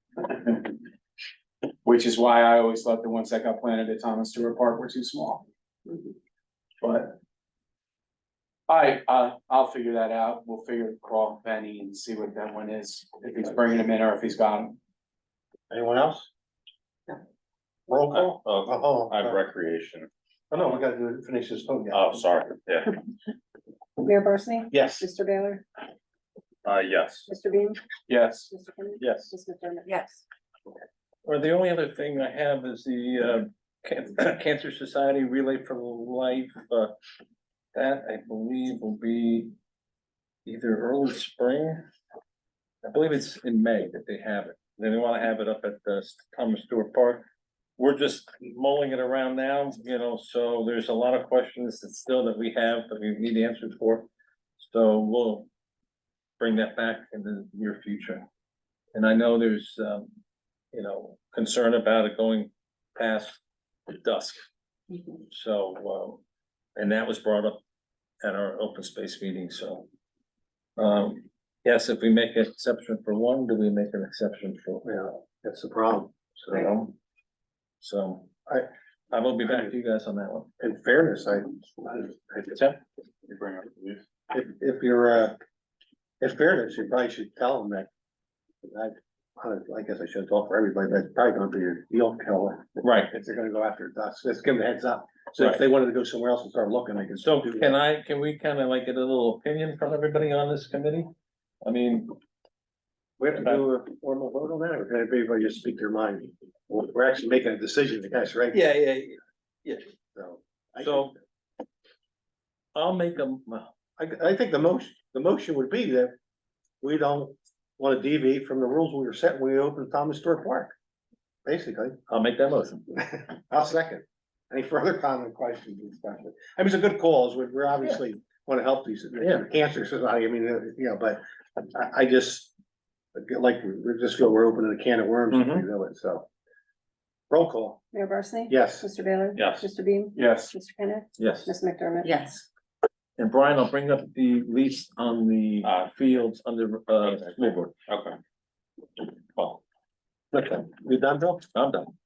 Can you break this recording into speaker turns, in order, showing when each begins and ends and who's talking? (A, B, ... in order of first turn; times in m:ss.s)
0:00.2-0:00.8 A
0:01.8-0:05.4 A
0:06.8-0:07.1 A
0:08.7-0:14.8 A
0:15.7-0:16.3 B
0:17.9-0:19.4 B
0:18.1-0:20.1 C
0:20.5-0:22.2 B
0:21.9-0:23.0 C
0:24.0-0:25.6 D
0:24.7-0:25.0 B
0:26.6-0:27.3 C
0:27.3-0:27.8 D
0:28.1-0:28.5 A
0:28.5-0:30.2 D
0:31.2-0:37.0 E
0:37.7-0:39.5 E
0:40.4-0:41.8 E
0:42.8-0:47.2 E
0:47.8-0:55.5 E
0:56.4-0:58.3 E
0:58.9-1:00.1 E
1:00.7-1:04.4 E
1:05.3-1:06.2 E
1:06.8-1:07.6 E
1:08.2-1:09.8 E
1:10.8-1:14.9 E
1:14.8-1:16.7 B
1:16.5-1:16.9 E
1:17.8-1:18.4 E
1:19.1-1:20.5 E
1:19.4-1:19.7 B
1:20.6-1:22.6 B
1:23.3-1:24.0 C
1:24.3-1:25.4 B
1:26.2-1:27.9 B
1:28.6-1:37.8 B
1:32.8-1:33.1 E
1:37.2-1:41.1 E
1:41.6-1:42.1 E
1:43.2-1:48.6 B
1:43.3-1:43.6 E
1:48.5-1:49.8 E
1:50.1-1:51.1 B
1:50.8-1:51.1 E
1:52.7-1:53.7 E
1:54.0-1:56.2 B
1:56.8-2:00.7 B
2:01.4-2:02.0 B
2:02.1-2:02.8 E
2:02.9-2:12.5 B
2:13.1-2:16.3 B
2:15.3-2:15.6 E
2:17.3-2:17.8 B
2:17.9-2:22.1 D
2:18.5-2:18.9 B
2:19.4-2:19.7 C
2:20.2-2:20.5 A
2:21.2-2:21.5 E
2:23.2-2:27.7 E
2:25.6-2:25.9 C
2:27.0-2:28.2 C
2:29.3-2:29.6 C
2:30.3-2:31.4 B
2:31.5-2:31.9 E